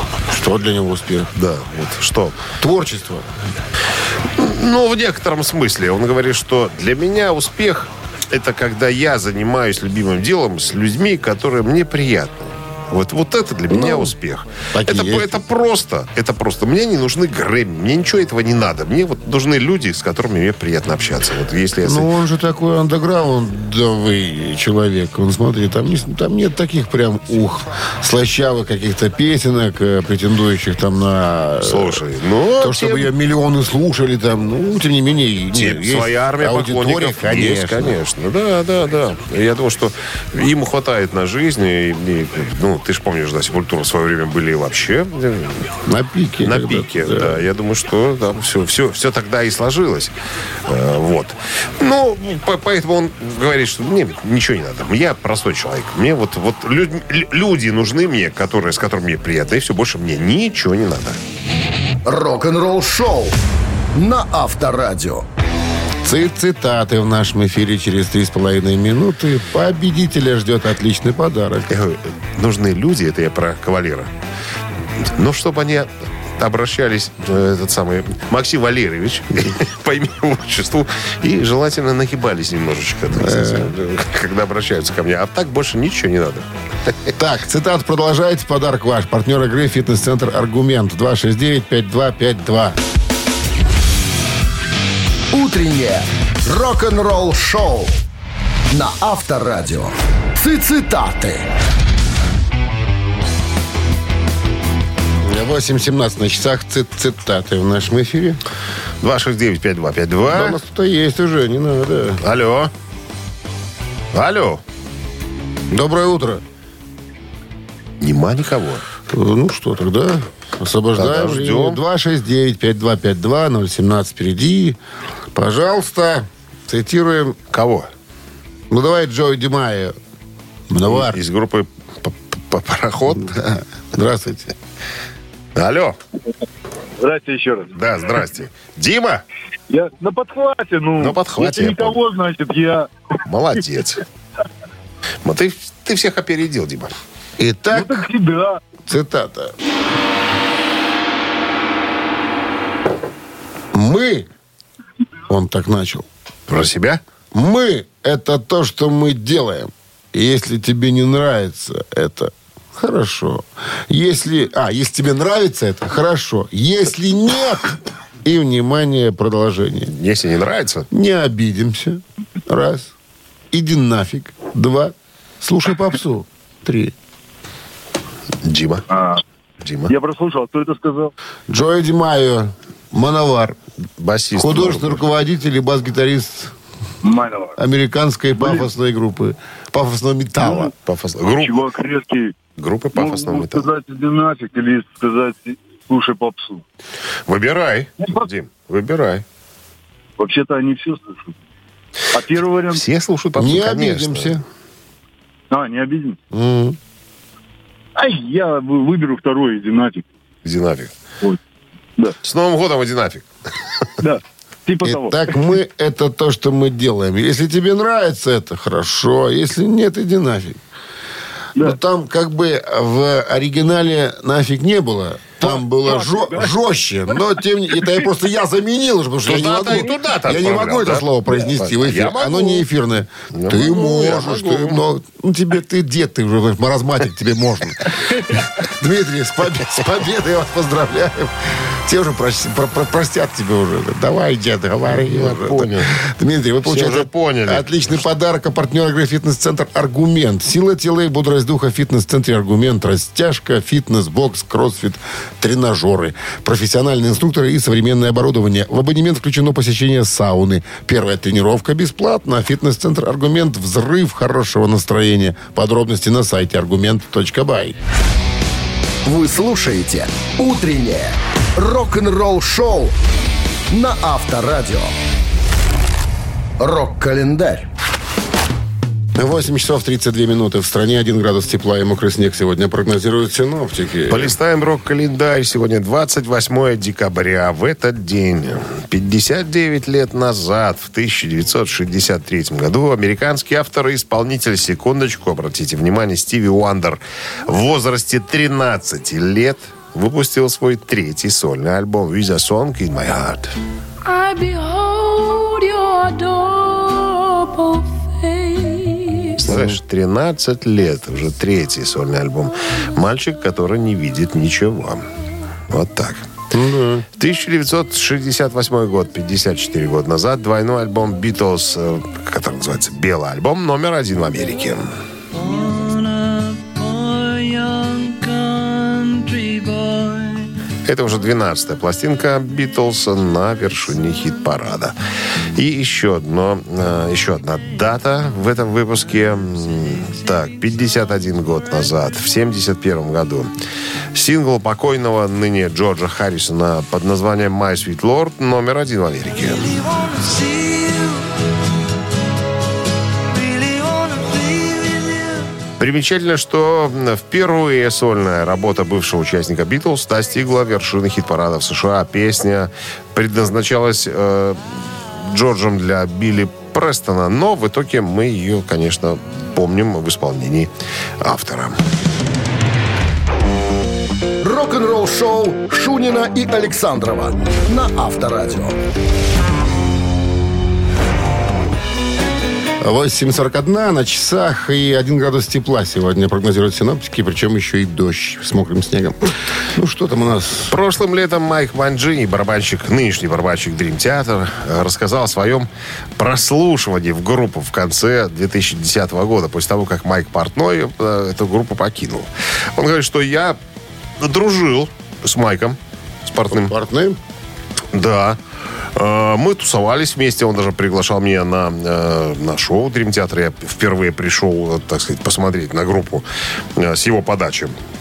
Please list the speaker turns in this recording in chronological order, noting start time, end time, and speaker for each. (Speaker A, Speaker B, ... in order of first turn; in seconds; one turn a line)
Speaker A: 0.3-1.3
Speaker B: 1.3-2.5
Speaker A: 2.6-3.3
Speaker B: 4.3-22.1
Speaker A: 13.7-14.1
Speaker A: 14.7-15.4
Speaker A: 21.8-32.0
Speaker B: 31.6-33.1
Speaker A: 32.6-38.0
Speaker B: 35.5-45.7
Speaker A: 45.8-47.4
Speaker B: 46.4-50.1
Speaker B: 50.7-61.2
Speaker C: 62.0-63.4
Speaker C: 63.9-65.2
Speaker A: 66.0-71.7
Speaker B: 71.7-74.1
Speaker B: 75.0-86.5
Speaker A: 83.1-83.7
Speaker A: 87.2-92.8
Speaker C: 95.3-98.0
Speaker C: 98.7-101.5
Speaker A: 105.2-108.4
Speaker B: 109.0-110.6
Speaker A: 110.2-112.2
Speaker B: 112.2-112.7
Speaker B: 114.1-114.6
Speaker A: 115.7-116.4
Speaker B: 118.0-118.8
Speaker A: 119.1-124.8
Speaker B: 121.0-121.8
Speaker A: 125.3-127.4
Speaker B: 127.5-127.9
Speaker A: 128.7-130.0
Speaker A: 130.7-131.2
Speaker B: 130.8-133.3
Speaker A: 133.1-134.5
Speaker B: 135.6-136.0
Speaker D: 137.0-137.7
Speaker B: 137.7-139.2
Speaker D: 139.7-142.9
Speaker B: 141.0-142.0
Speaker B: 143.2-144.0
Speaker B: 145.2-146.9
Speaker A: 147.4-148.1
Speaker D: 147.7-148.6
Speaker A: 148.8-149.5
Speaker A: 153.7-154.3
Speaker A: 155.3-156.1
Speaker B: 156.5-157.0
Speaker A: 157.3-169.9
Speaker B: 169.9-170.9
Speaker A: 170.9-172.9
Speaker A: 173.5-176.9
Speaker B: 178.4-178.8
Speaker D: 178.9-179.2
Speaker B: 179.6-179.9
Speaker D: 179.9-181.1
Speaker A: 181.5-183.6
Speaker B: 184.0-185.0
Speaker A: 184.4-186.5
Speaker D: 187.0-187.6
Speaker A: 187.6-190.7
Speaker D: 188.4-188.6
Speaker D: 190.4-190.7
Speaker B: 190.8-191.7
Speaker D: 191.4-192.3
Speaker B: 192.6-193.7
Speaker D: 192.9-196.6
Speaker B: 197.3-199.2
Speaker D: 200.2-201.3
Speaker D: 202.1-202.8
Speaker B: 202.7-204.4
Speaker A: 203.3-204.4
Speaker D: 205.5-206.2
Speaker A: 206.3-206.8
Speaker D: 207.9-210.1
Speaker B: 210.4-210.9
Speaker B: 212.2-213.2
Speaker D: 214.0-215.3
Speaker A: 214.8-220.6
Speaker A: 221.6-267.8
Speaker D: 225.4-226.5
Speaker B: 229.2-232.7
Speaker B: 233.3-234.8
Speaker B: 244.9-245.9
Speaker B: 246.6-247.8
Speaker C: 269.0-272.9
Speaker C: 273.7-274.9
Speaker C: 276.6-277.7
Speaker A: 279.1-284.3
Speaker B: 284.1-303.5
Speaker E: 304.0-309.4
Speaker B: 309.4-315.1
Speaker A: 309.4-309.8
Speaker B: 315.7-316.2
Speaker A: 316.5-317.1
Speaker B: 317.2-324.9
Speaker E: 325.3-330.5
Speaker B: 330.8-334.9
Speaker B: 335.5-343.5
Speaker B: 344.1-349.8
Speaker E: 350.1-351.1
Speaker E: 353.3-355.2
Speaker B: 355.8-371.8
Speaker C: 374.4-378.8
Speaker A: 382.8-390.7
Speaker B: 390.7-403.6
Speaker B: 404.2-406.7
Speaker A: 406.5-407.2
Speaker B: 407.9-408.4
Speaker B: 408.9-416.2
Speaker B: 416.8-417.7